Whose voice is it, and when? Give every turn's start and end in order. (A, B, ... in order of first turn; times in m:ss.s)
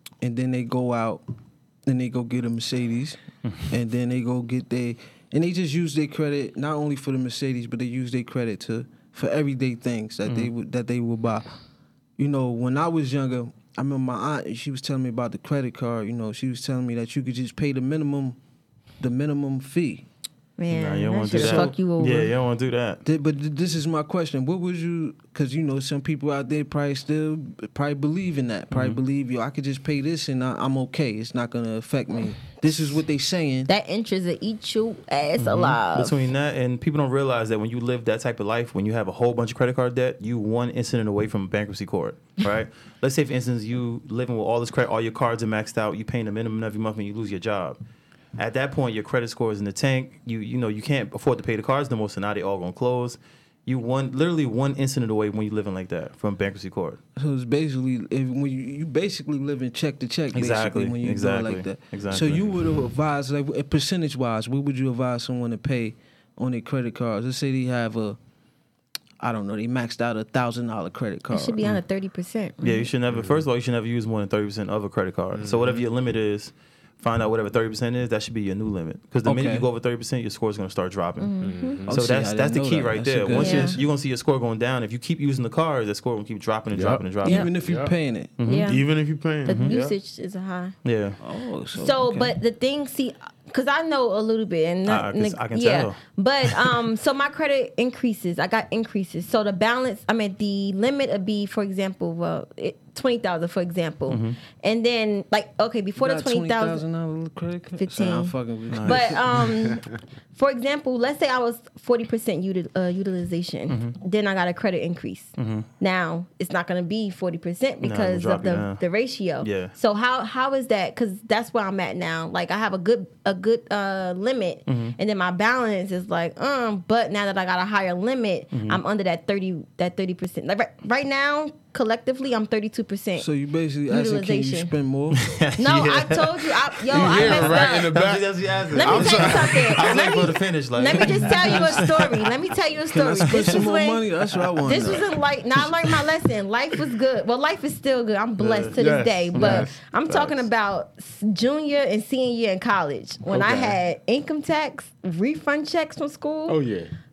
0:00.2-0:01.2 A
0:01.8-0:11.4 A
0:12.2-0:18.4 A
0:19.0-0:20.0 A
0:20.6-0:22.3 B
0:20.7-0:23.0 C
0:21.3-0:21.7 A
0:23.0-0:33.7 A
0:28.7-0:29.0 C
0:33.7-0:36.2 B
0:35.4-0:47.8 C
0:48.4-0:57.0 C
0:57.2-1:08.2 A
1:00.3-1:02.5 C
1:09.2-1:11.6 A
1:11.3-1:12.9 B
1:12.6-1:21.3 C
1:13.1-1:13.4 D
1:15.3-1:15.8 D
1:19.2-1:19.7 A
1:21.2-1:21.8 B
1:21.4-1:22.0 D
1:21.9-1:23.8 A
1:21.9-1:27.5 C
1:23.4-1:23.8 B
1:26.7-1:27.0 D
1:27.2-1:28.3 A
1:27.2-1:27.5 B
1:27.6-1:27.9 D
1:28.4-1:28.8 C
1:28.4-1:28.8 B
1:28.6-1:29.9 D
1:29.4-1:30.7 B
1:29.4-1:29.8 C
1:30.8-1:31.2 C
1:31.2-1:32.4 A
1:31.7-1:46.8 B
1:34.8-1:36.8 C
1:44.1-1:44.4 C
1:46.0-1:49.4 A
1:47.8-2:13.3 B
1:48.7-1:49.7 C
1:53.7-1:53.9 C
1:55.4-1:55.7 C
1:57.8-1:58.8 C
1:59.4-1:59.7 C
2:04.7-2:04.9 C
2:08.5-2:08.8 C
2:13.2-2:15.3 A
2:13.9-2:14.7 B
2:15.1-2:22.3 C
2:15.6-2:17.9 B
2:16.9-2:20.1 D
2:18.7-2:24.0 B
2:22.9-2:25.1 A
2:23.3-2:23.6 C
2:24.6-2:36.6 B
2:28.4-2:28.7 C
2:28.6-2:29.7 D
2:29.4-2:29.6 A
2:30.1-2:30.4 C
2:33.3-2:33.8 D
2:36.5-2:36.9 D